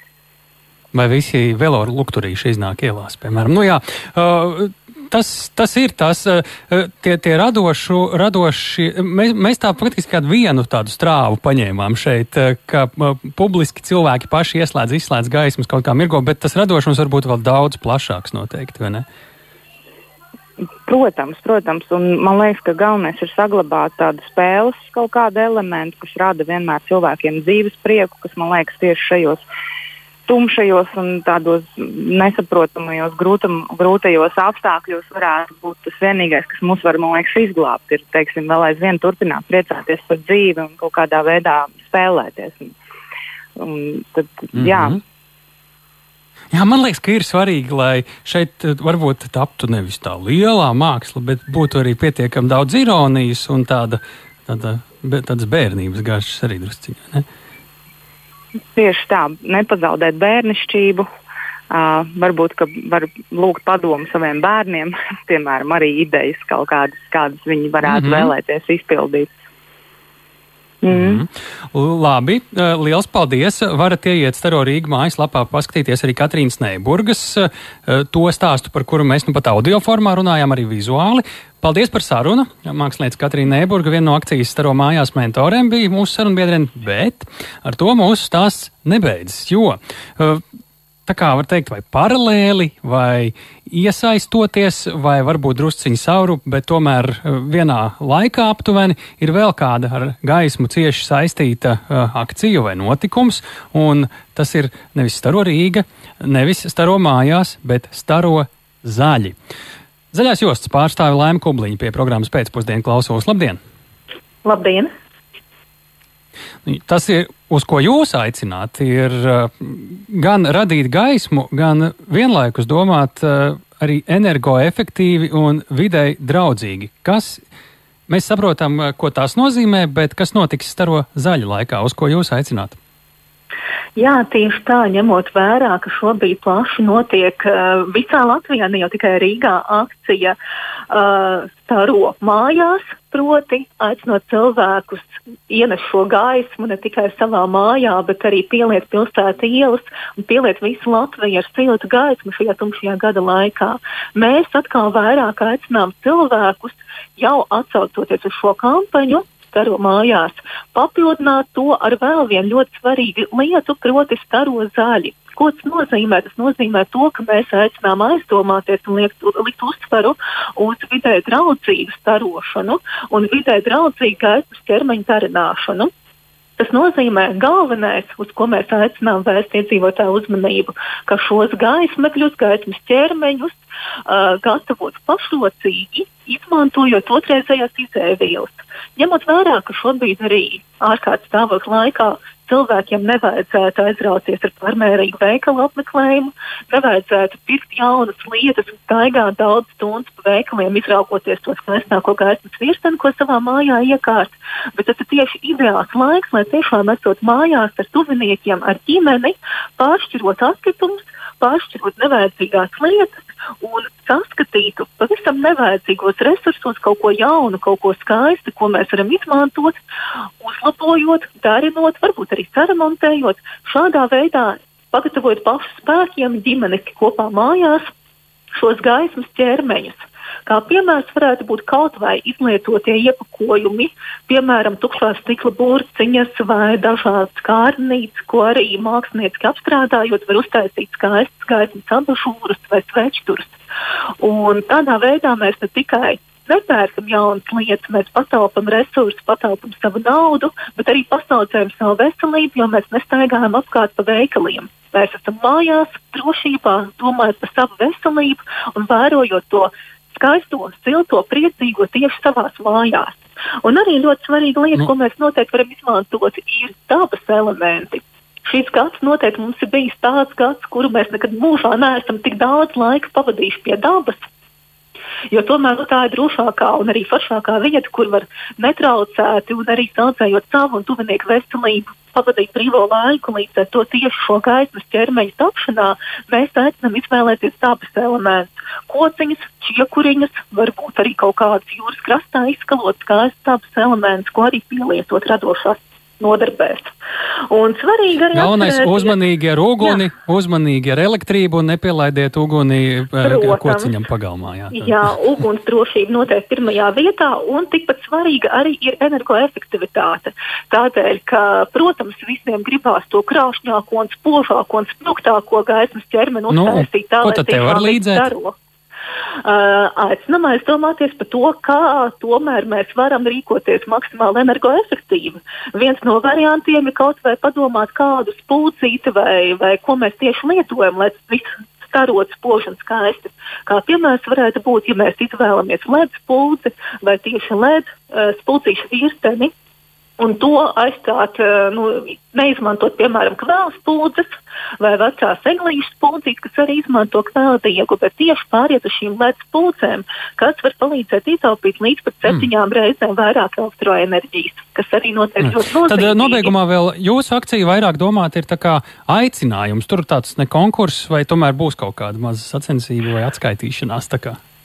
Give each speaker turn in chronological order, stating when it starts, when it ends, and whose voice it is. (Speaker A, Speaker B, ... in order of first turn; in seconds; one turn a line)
Speaker A: 0.9-19.1
Speaker B: 20.8-29.4
Speaker B: 30.3-42.7
Speaker B: 43.5-45.0
Speaker A: 44.5-45.0
Speaker A: 46.5-57.2
Speaker B: 58.7-61.0
Speaker B: 61.7-69.3
Speaker A: 67.8-68.3
Speaker B: 70.8-71.2
Speaker A: 70.9-90.4
Speaker A: 91.1-109.3
Speaker A: 110.1-113.6
Speaker C: 114.4-114.9
Speaker A: 116.6-127.4
Speaker A: 128.1-132.8
Speaker C: 133.9-140.3
Speaker C: 140.9-175.9
Speaker C: 176.6-219.8
Speaker C: 220.4-227.9
Speaker C: 228.5-243.6
Speaker C: 244.2-274.3
Speaker C: 275.3-296.9
Speaker C: 297.5-299.2
Speaker A: 298.3-305.0
Speaker C: 303.2-303.9
Speaker C: 304.7-318.5
Speaker A: 316.5-318.3
Speaker C: 319.4-339.5
Speaker C: 340.2-356.5
Speaker A: 355.4-364.4